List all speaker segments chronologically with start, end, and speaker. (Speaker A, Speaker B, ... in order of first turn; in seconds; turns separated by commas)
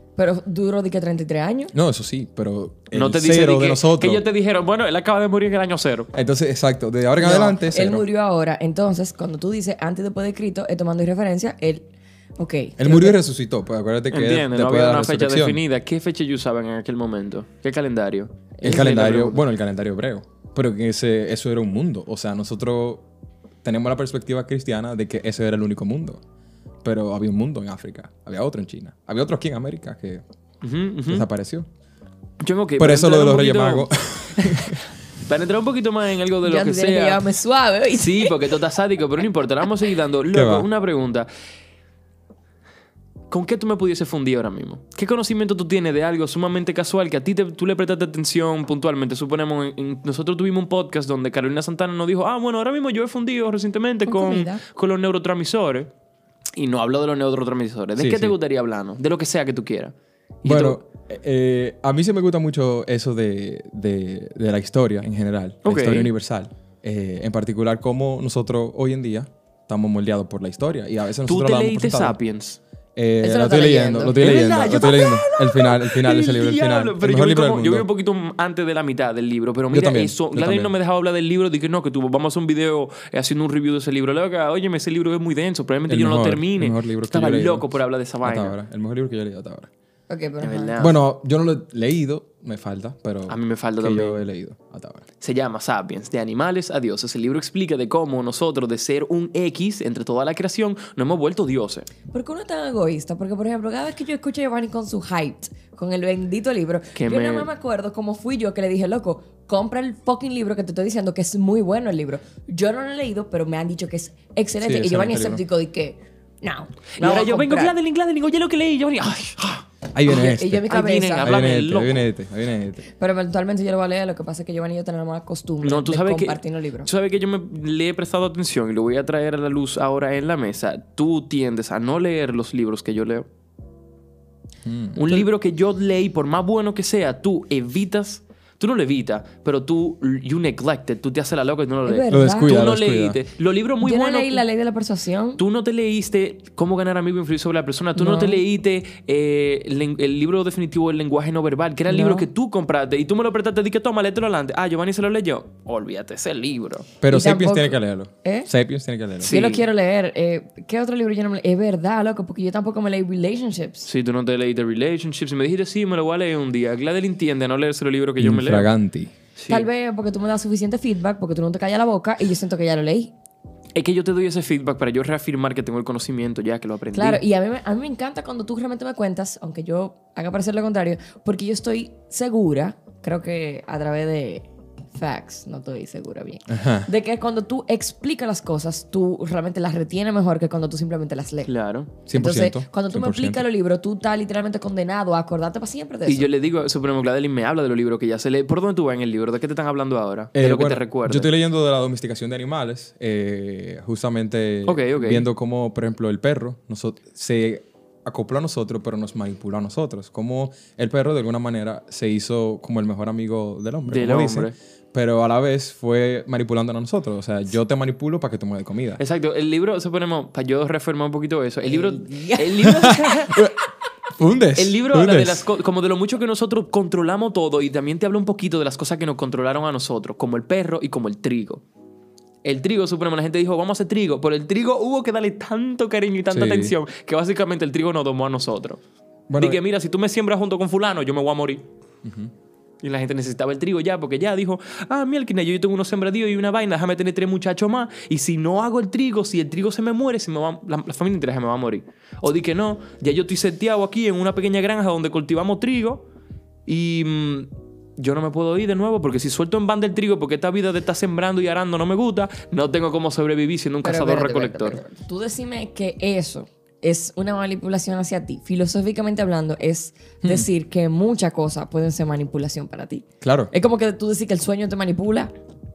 Speaker A: 0.1-1.7, Speaker B: 1.7-4.2, Speaker C: 2.9-6.1, Speaker B: 6.1-8.1, Speaker A: 7.2-13.2, Speaker B: 12.8-15.6, Speaker C: 14.1-19.4, Speaker B: 18.6-23.1, Speaker B: 23.6-26.2, Speaker B: 26.8-30.2, Speaker C: 30.6-31.3, Speaker B: 31.1-31.7, Speaker C: 32.4-37.2, Speaker B: 32.8-34.8, Speaker A: 36.4-38.3, Speaker C: 37.9-41.3, Speaker B: 40.3-40.7, Speaker C: 43.3-55.9, Speaker A: 54.0-54.6, Speaker C: 56.5-59.9, Speaker B: 58.0-58.4, Speaker C: 60.4-60.8, Speaker B: 60.4-72.2, Speaker C: 65.6-66.1, Speaker C: 71.2-72.6, Speaker B: 73.0-77.9, Speaker A: 73.2-74.9, Speaker C: 74.1-88.5, Speaker B: 79.7-80.7, Speaker B: 85.9-87.7, Speaker B: 88.2-89.7, Speaker A: 90.1-90.9, Speaker C: 90.4-91.0, Speaker B: 90.8-95.0, Speaker C: 93.3-94.2, Speaker C: 95.2-101.9, Speaker A: 102.1-117.7, Speaker C: 107.0-107.5, Speaker B: 114.6-115.4, Speaker C: 117.0-119.6, Speaker B: 119.9-122.9, Speaker A: 120.0-121.3, Speaker C: 120.7-122.1, Speaker A: 122.9-126.9, Speaker C: 125.6-133.2, Speaker B: 134.6-135.0, Speaker C: 134.9-144.4, Speaker A: 141.8-142.6, Speaker B: 142.1-143.2, Speaker A: 143.8-145.4, Speaker C: 145.4-156.9, Speaker A: 147.9-148.4, Speaker A: 151.9-152.3, Speaker B: 157.0-159.4, Speaker A: 157.1-158.5, Speaker C: 159.2-159.6, Speaker A: 159.2-163.9, Speaker C: 163.8-168.7, Speaker B: 168.2-169.1, Speaker C: 169.4-169.7, Speaker A: 169.5-173.1, Speaker C: 173.7-177.2, Speaker A: 176.9-191.5, Speaker B: 186.5-186.9, Speaker C: 191.4-191.9, Speaker B: 192.1-193.4, Speaker A: 192.1-196.3, Speaker C: 196.1-201.3, Speaker B: 200.3-219.0, Speaker C: 204.7-205.2, Speaker C: 213.8-214.5, Speaker C: 219.0-223.4, Speaker A: 221.6-222.9, Speaker B: 222.6-223.6, Speaker B: 224.2-225.4, Speaker C: 224.6-231.6, Speaker C: 232.4-238.8, Speaker B: 236.3-236.7, Speaker B: 239.3-239.6, Speaker C: 239.3-241.6, Speaker B: 242.0-242.3, Speaker C: 242.8-256.0, Speaker C: 256.7-264.8, Speaker A: 263.8-275.3, Speaker B: 270.2-270.5, Speaker B: 273.2-273.5